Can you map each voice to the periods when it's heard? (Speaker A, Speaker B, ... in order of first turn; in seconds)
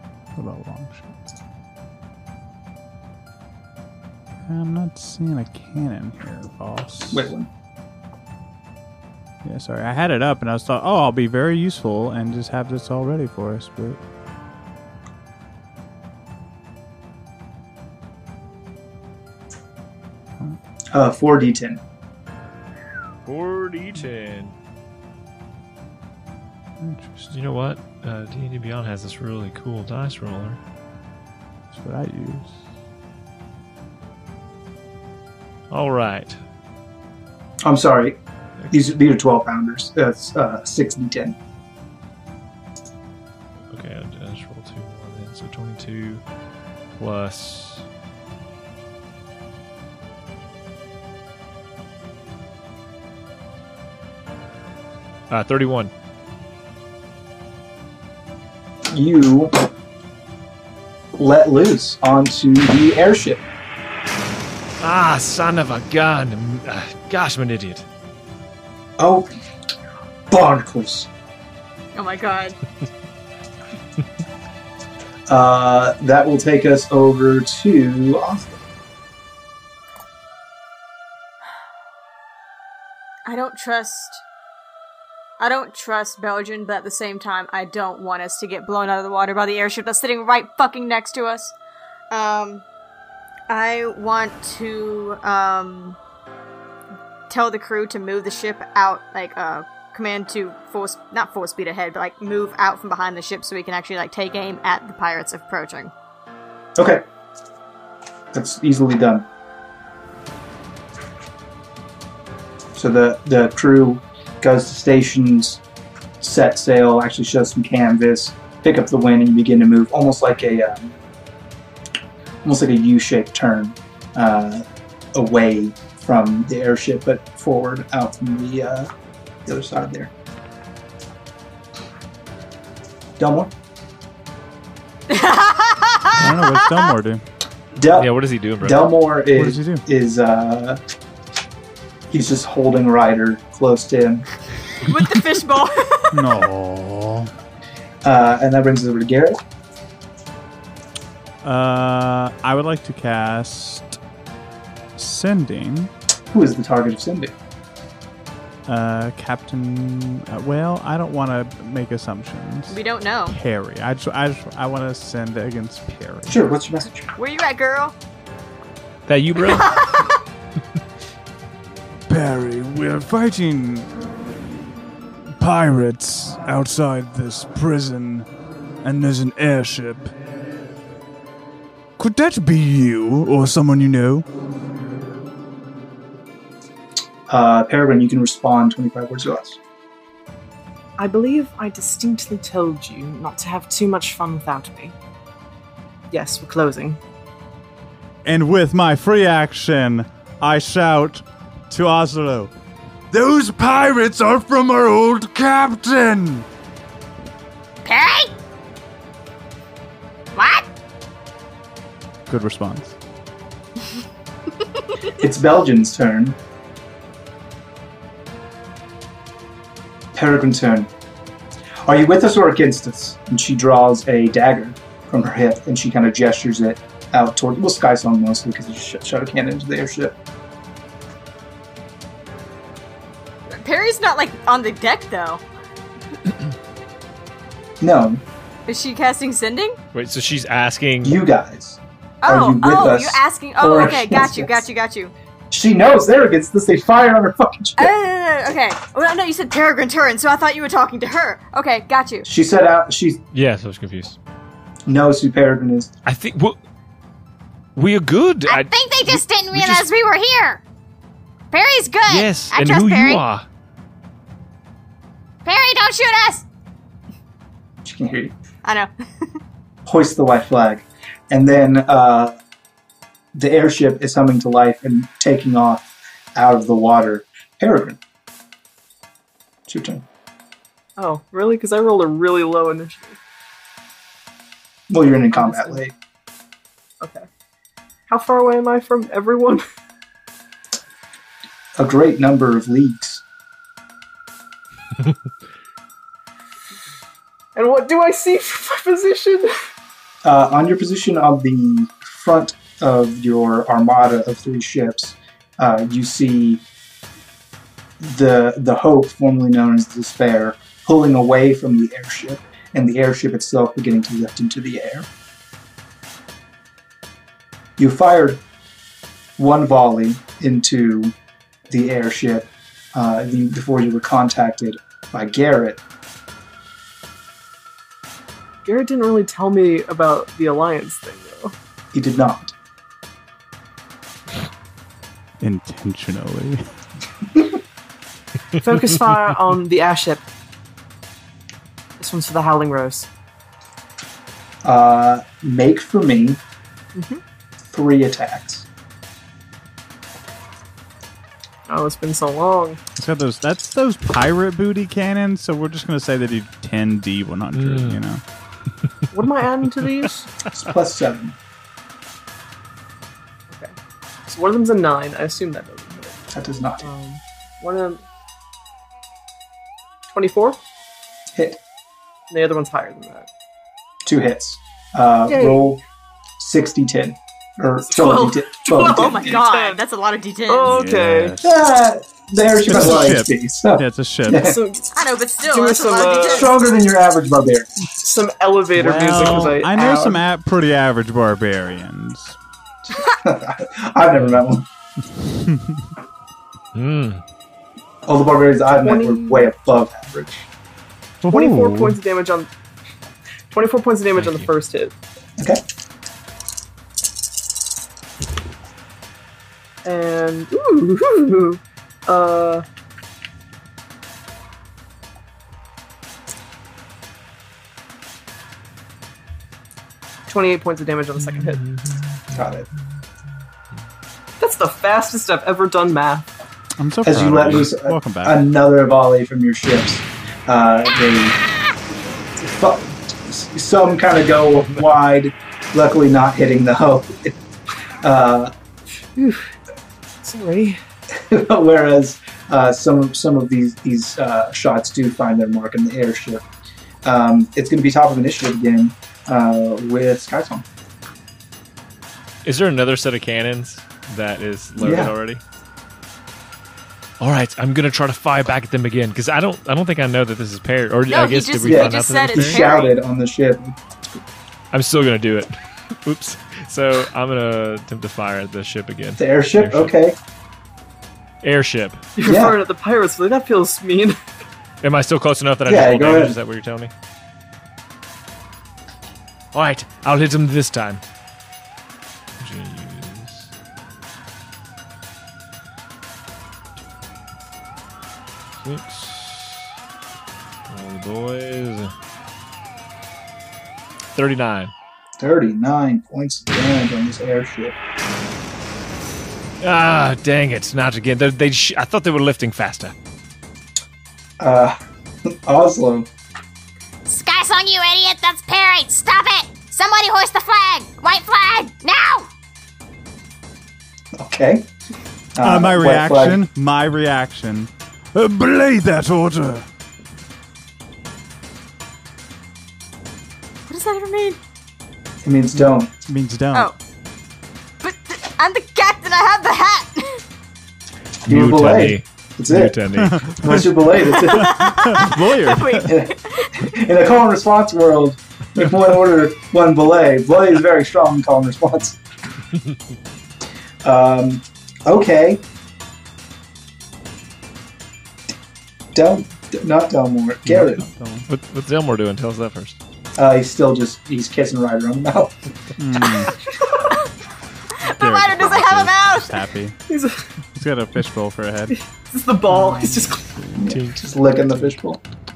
Speaker A: 0.3-1.2, 4.4-7.3, 9.4-14.0, 26.8-27.3, 31.7-32.6, 136.1-137.2, 139.3-139.8, 146.1-147.3, 151.4-154.0, 155.0-155.9, 158.7-166.5, 172.1-174.0, 175.4-178.3, 178.8-180.2, 182.0-184.3, 198.2-202.5, 203.1-206.5, 212.3-213.0, 335.4-336.6, 353.0-358.2, 380.7-381.6, 382.7-384.5, 388.7-392.4, 395.2-395.9, 401.2-402.0, 426.8-428.4, 515.4-519.7, 525.5-526.7, 533.0-535.9, 550.5-551.3, 555.8-556.4, 557.9-559.8, 560.5-561.8, 562.5-563.8
Speaker B: 7.1-7.5, 20.9-21.8, 37.6-38.2, 38.7-41.4, 58.9-59.5, 61.2-63.4, 69.0-69.3, 70.3-71.1, 75.3-78.5, 106.8-107.0, 108.3-109.3, 112.8-115.6, 116.2-121.0, 122.4-128.9, 129.5-130.1, 133.2-133.5, 137.8-140.8, 142.1-144.3, 148.0-149.4, 156.3-157.3, 166.3-167.1, 187.3-189.6, 215.1-216.4, 220.2-220.9, 221.8-230.2, 237.8-238.2, 241.0-244.6, 245.5-247.9, 252.2-253.2, 254.9-255.9, 267.9-268.4, 269.9-272.4, 273.4-278.0, 279.7-280.1, 284.9-285.9, 291.8-293.2, 300.2-306.6, 308.0-315.1, 317.8-318.4, 319.4-321.1, 321.7-325.8, 331.9-332.5, 344.6-346.4, 347.7-348.7, 360.5-361.4, 366.3-366.9, 374.1-375.8, 376.4-379.4, 381.4-384.6, 386.2-387.8, 392.9-394.7, 398.1-400.5, 422.3-422.7, 427.0-431.4, 432.4-437.4, 438.0-438.5, 441.2-446.4, 447.1-450.7, 454.8-455.1, 461.6-463.8, 469.2-470.2, 472.2-472.6, 475.7-476.4, 495.2-497.8, 504.4-506.1, 514.1-514.7, 515.4-516.4, 525.2-525.9, 531.3-532.8, 533.3-534.7, 535.9-542.0, 543.8-545.4, 549.0-550.9, 553.2-555.4, 563.6-565.0
Speaker C: 23.3-24.6, 27.3-30.6, 35.7-36.4, 43.7-46.2, 47.0-47.9, 55.3-55.9, 64.8-67.9, 138.0-138.9, 169.1-169.9, 239.9-241.2, 253.3-254.2, 256.1-256.6, 257.8-259.9, 262.1-263.5, 357.5-358.0, 396.7-397.2, 404.1-404.5, 421.4-422.3, 452.4-455.4, 457.2-462.7, 464.7-469.9, 471.4-472.0, 474.8-476.9, 479.5-481.0, 482.4-483.5, 488.6-489.7, 490.7-491.9, 494.1-494.7, 499.6-502.9, 531.3-533.6, 551.3-552.8, 563.7-564.0
Speaker D: 72.0-72.6, 83.3-84.2, 85.4-91.5, 92.1-92.7, 93.5-96.0, 97.3-105.9, 135.1-136.7, 144.8-146.2, 162.7-163.4, 167.2-167.9, 169.4-170.1, 233.5-235.4, 238.7-239.8, 242.2-245.1, 247.8-252.3, 268.6-268.9, 378.8-380.8, 384.9-386.5, 461.1-462.9, 523.7-524.4, 527.8-530.2, 534.1-536.6, 557.8-559.4
Speaker E: 191.0-194.9, 196.1-197.0, 281.0-283.2, 285.3-285.8, 287.0-287.3, 288.1-289.6, 297.6-299.5, 328.6-331.6, 338.6-340.2, 342.0-343.1, 346.9-347.2, 351.7-352.8, 359.1-360.3, 364.3-366.2, 366.8-368.0, 370.1-370.6, 372.3-373.3, 375.3-375.7, 377.9-379.8, 380.5-381.4, 384.4-386.5, 388.0-390.2, 398.8-399.5, 401.3-402.5, 403.5-404.9, 409.9-412.6, 420.3-421.6, 424.4-426.3, 439.1-439.5, 440.2-440.8, 472.2-474.2, 559.9-560.2, 561.7-563.3
Speaker F: 207.8-208.3, 210.4-210.7, 258.5-260.6, 261.5-263.2, 265.4-266.4, 507.1-512.3